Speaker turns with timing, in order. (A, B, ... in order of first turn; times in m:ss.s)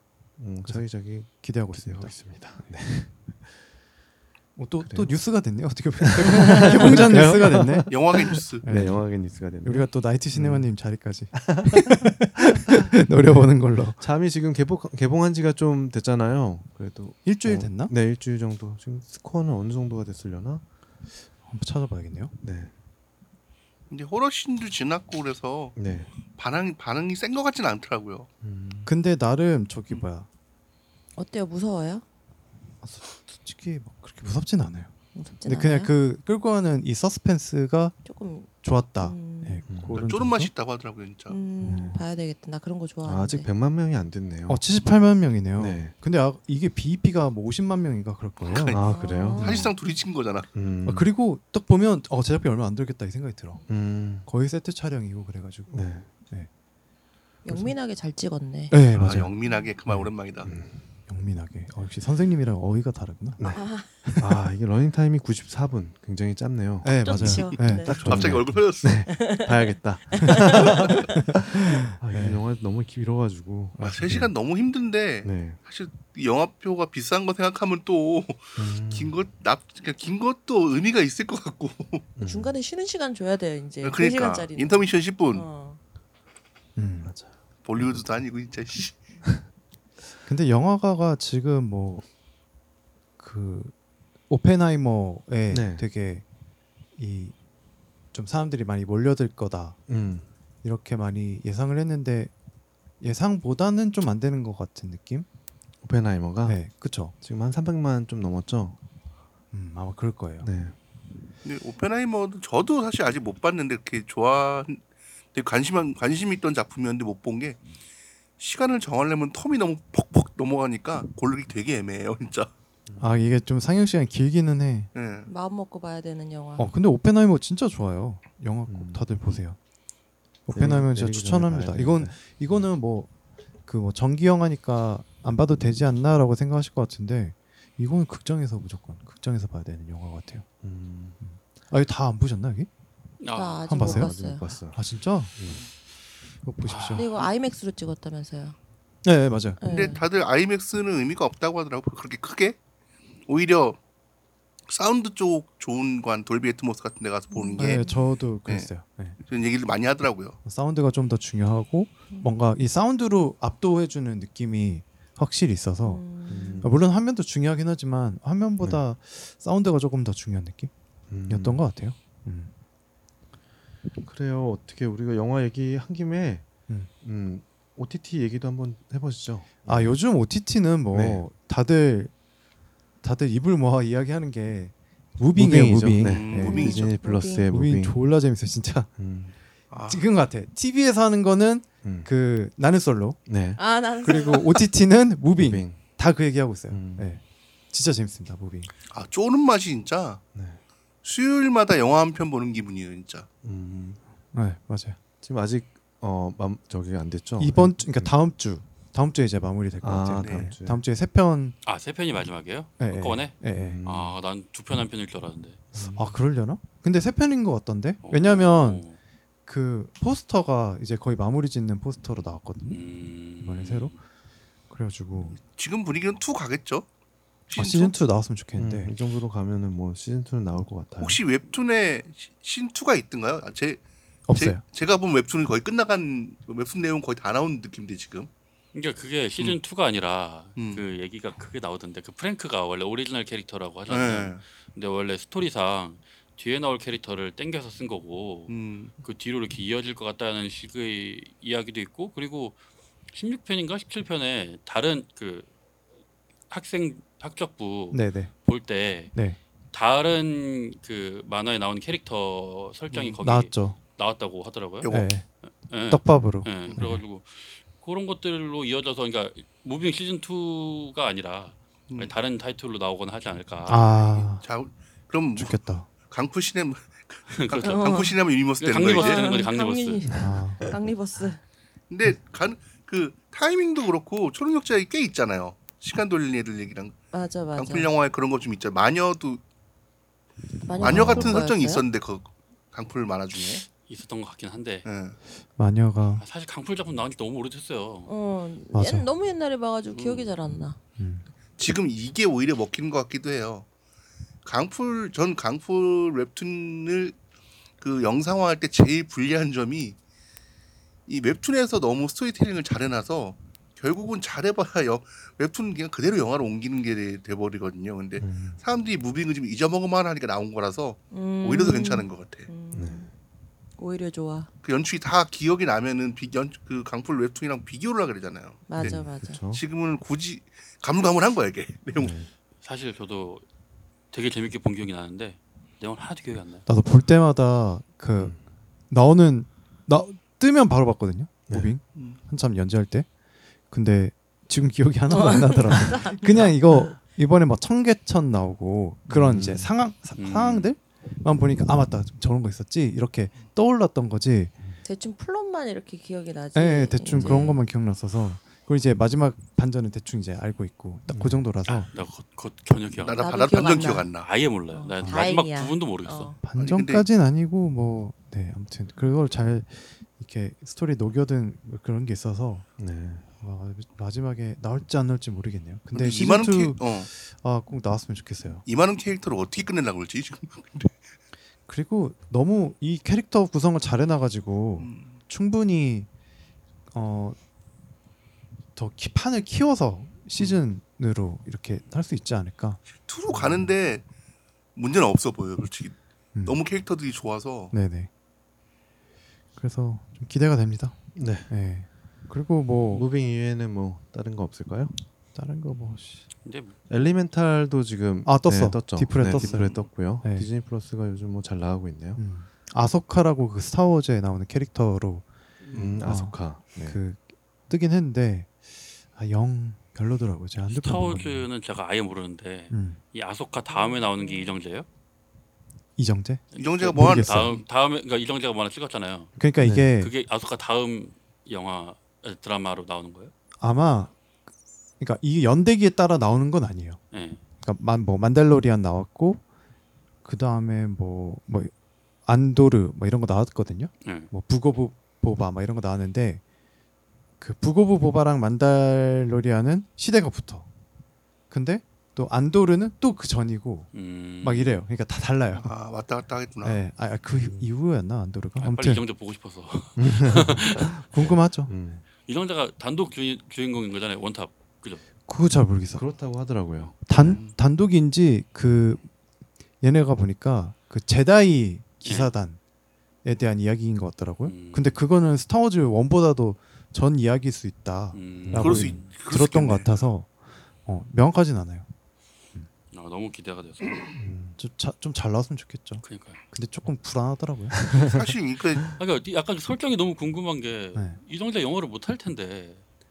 0:00.4-0:03.5 A
0:00.7-0:02.8 B
0:04.6-0:14.0 B
0:04.8-0:05.1 A
0:06.0-0:10.7 A
0:07.9-0:08.7 C
0:11.3-0:11.9 A
0:14.0-0:20.6 A
0:17.2-0:17.9 B
0:21.5-0:22.3 B
0:22.4-0:22.7 A
0:23.9-0:25.8 C
0:25.8-0:26.1 A
0:26.3-0:28.3 C
0:28.4-0:28.9 A
0:28.9-0:30.3 B
0:31.2-0:32.0 D
0:32.8-0:34.9 B
0:35.2-0:35.9 D
0:35.4-0:38.0 B
0:38.0-0:39.6 D
0:38.6-0:40.5 B
0:39.7-0:40.0 A
0:39.9-0:41.4 C
0:41.3-0:43.5 D
0:41.6-0:42.0 A
0:43.0-0:44.6 A
0:44.5-0:48.8 B
0:45.6-0:46.0 A
0:48.4-0:48.8 C
0:48.7-0:49.6 A
0:48.8-0:49.7 D
0:49.4-0:50.5 C
0:50.5-0:51.1 A
0:50.8-0:56.5 B
0:53.7-0:54.3 A
0:55.7-0:56.1 A
0:57.4-0:58.8 D
0:57.5-0:57.8 B
0:58.7-0:59.3 B
0:58.9-0:59.3 A
0:59.0-1:00.5 C
1:00.4-1:00.8 A
1:01.1-1:04.3 B
1:03.4-1:03.6 A
1:03.5-1:03.9 D
1:04.2-1:14.3 A
1:06.8-1:08.5 B
1:07.0-1:08.0 D
1:07.8-1:09.1 C
1:09.1-1:11.0 D
1:10.2-1:12.4 B
1:13.8-1:22.1 C
1:15.2-1:15.6 A
1:18.6-1:19.1 A
1:22.2-1:22.6 A
1:22.2-1:25.8 D
1:23.8-1:25.5 C
1:26.8-1:27.2 B
1:27.0-1:28.0 A
1:27.6-1:29.0 C
1:30.2-1:32.0 B
1:33.2-1:33.7 B
1:34.3-1:36.2 B
1:35.5-1:35.8 A
1:37.0-1:37.4 B
1:38.1-1:39.8 B
1:39.9-1:40.3 A
1:40.6-1:42.3 B
1:43.0-1:45.3 B
1:45.8-1:46.6 A
1:46.5-1:47.2 B
1:47.2-1:48.8 A
1:49.5-1:50.5 B
1:50.4-1:50.8 A
1:51.4-1:54.8 C
1:55.3-1:57.6 C
1:58.4-2:02.5 C
2:02.9-2:03.1 A
2:03.0-2:04.9 B
2:05.0-2:05.3 C
2:05.3-2:06.7 D
2:06.6-2:09.6 B
2:08.7-2:09.3 A
2:10.5-2:13.1 B
2:10.5-2:12.7 A
2:13.7-2:20.5 B
2:20.6-2:21.2 A
2:21.2-2:22.7 B
2:23.2-2:23.7 E
2:23.3-2:24.5 D
2:23.7-2:25.4 B
2:23.8-2:24.8 A
2:26.4-2:27.1 B
2:26.6-2:27.1 E
2:26.9-2:28.6 D
2:29.0-2:29.6 B
2:29.6-2:30.0 D
2:29.6-2:32.6 C
2:33.3-2:33.8 C
2:34.7-2:37.9 C
2:37.3-2:38.1 D
2:37.6-2:39.2 B
2:39.2-2:40.4 C
2:40.4-2:46.1 B
2:45.8-2:46.6 D
2:46.3-2:46.8 A
2:46.6-2:50.7 B
2:51.1-2:51.6 A
2:51.3-2:52.5 B
2:54.0-2:56.5 A
2:57.0-2:59.9 A
2:59.6-3:02.1 B
3:00.9-3:01.2 A
3:03.0-3:06.7 B
3:05.4-3:08.0 A
3:06.0-3:06.9 C
3:06.3-3:07.5 D
3:07.5-3:09.0 B
3:09.0-3:09.4 A
3:09.7-3:10.0 C
3:09.9-3:13.2 B
3:11.8-3:12.1 A
3:13.3-3:13.6 A
3:13.6-3:14.6 D
3:14.0-3:18.7 B
3:15.4-3:15.8 A
3:16.7-3:17.1 A
3:18.9-3:20.2 C
3:20.3-3:20.6 A
3:21.0-3:23.3 C
3:23.4-3:24.0 A
3:24.3-3:25.0 B
3:25.2-3:28.1 A
3:27.4-3:31.6 B
3:29.8-3:30.8 A
3:30.2-3:30.5 C
3:31.6-3:35.7 E
3:32.8-3:33.8 B
3:33.5-3:34.1 A
3:35.7-3:36.1 A
3:35.9-3:38.8 B
3:38.0-3:39.0 E
3:39.5-3:42.8 B
3:42.7-3:44.0 E
3:43.4-3:44.0 B
3:44.7-3:45.4 B
3:45.4-3:46.9 C
3:47.5-3:48.0 C
3:47.6-3:48.9 B
3:48.6-3:51.2 A
3:51.0-3:53.8 C
3:54.3-3:54.6 B
3:54.4-3:58.3 C
3:58.7-4:12.6 E
4:00.6-4:00.8 C
4:03.9-4:04.4 C
4:08.5-4:08.9 C
4:13.1-4:15.5 E
4:16.5-4:19.2 E
4:17.9-4:18.3 B
4:19.7-4:24.9 E
4:23.0-4:23.8 B
4:24.8-4:25.1 C
4:24.9-4:25.3 B
4:25.7-4:33.9 E
4:25.9-4:27.0 B
4:33.7-4:34.4 B
4:34.4-4:39.4 C
4:35.4-4:35.9 B
4:37.3-4:38.0 E
4:37.6-4:38.2 D
4:38.6-4:40.1 E
4:38.9-4:41.4 D
4:40.1-4:40.5 A
4:40.2-4:40.6 B
4:41.9-4:47.0 C
4:47.1-4:47.9 D
4:47.6-4:49.4 C
4:50.6-4:51.8 D
4:50.8-4:53.6 C
4:50.9-4:51.3 B
4:50.9-4:51.3 A
4:53.4-4:54.9 E
4:54.8-4:55.2 C
4:55.6-4:56.2 B
4:56.2-4:58.1 E
4:58.1-5:00.8 D
4:58.7-4:59.1 B
4:59.9-5:00.3 E
5:01.0-5:01.2 B
5:01.6-5:03.7 C
5:04.4-5:07.2 C
5:07.8-5:10.0 C
5:11.1-5:22.5 C
5:18.2-5:18.6 A
5:21.1-5:23.1 D
5:22.7-5:23.1 A
5:23.8-5:24.5 D
5:24.6-5:32.1 C
5:28.7-5:29.4 D
5:28.8-5:29.6 A
5:32.0-5:32.3 A
5:32.6-5:33.4 E
5:34.1-5:36.6 E
5:36.7-5:43.1 B
5:41.5-5:41.7 A
5:42.0-5:42.2 C
5:43.7-5:54.5 B
5:45.1-5:46.9 D
5:49.1-5:49.7 A
5:50.2-5:50.7 E
5:54.8-5:57.5 D
5:56.6-6:01.9 B
5:57.2-5:57.5 A
6:01.1-6:01.4 A
6:01.7-6:06.4 E
6:03.0-6:04.3 C
6:03.2-6:04.1 D
6:04.7-6:06.4 D
6:05.0-6:05.3 B
6:06.4-6:12.7 B
6:06.6-6:07.1 C
6:12.8-6:13.3 A
6:13.3-6:18.6 B
6:15.9-6:17.1 C
6:18.7-6:21.0 C
6:21.7-6:26.1 B
6:24.8-6:25.2 C
6:26.9-6:27.4 B
6:28.8-6:32.8 B
6:33.0-6:34.0 C
6:34.8-6:37.7 C
6:36.3-6:36.6 B
6:37.7-6:38.1 B
6:39.6-6:43.0 B
6:41.2-6:41.5 A
6:42.9-6:44.9 A
6:45.4-6:46.3 B
6:46.4-6:46.8 E
6:46.9-6:52.2 A
6:48.2-6:50.5 B
6:49.4-6:49.9 C
6:52.2-6:55.3 B
6:55.6-6:57.0 A
6:56.0-7:01.5 B
7:00.7-7:04.9 E
7:02.7-7:03.0 B
7:06.0-7:07.6 B
7:06.5-7:13.3 E
7:06.6-7:07.6 C
7:09.4-7:10.1 B
7:13.6-7:14.2 B
7:15.0-7:17.0 B
7:17.1-7:17.4 E
7:17.6-7:19.4 B
7:20.2-7:21.7 B
7:22.2-7:26.4 B
7:24.0-7:24.3 E
7:27.4-7:30.7 B
7:31.5-7:33.9 B
7:33.9-7:34.8 E
7:34.4-7:35.7 B
7:35.5-7:36.8 C
7:36.6-7:39.0 B
7:38.6-7:40.9 E
7:40.0-7:42.0 A
7:41.1-7:41.7 B
7:42.3-7:45.0 E
7:45.3-7:46.0 B
7:45.9-7:47.0 A
7:47.0-7:49.1 B
7:47.1-7:47.6 C
7:49.8-7:52.6 B
7:52.0-7:52.3 E
7:53.2-8:00.3 B
7:54.4-7:55.0 E
7:58.1-7:59.1 E
7:58.4-7:59.0 A
7:58.6-8:00.0 C
8:00.8-8:01.9 B
8:02.9-8:04.1 E
8:04.2-8:04.6 A
8:04.6-8:07.9 B
8:06.0-8:06.4 E
8:07.9-8:08.8 C
8:09.0-8:12.8 E
8:10.9-8:11.2 B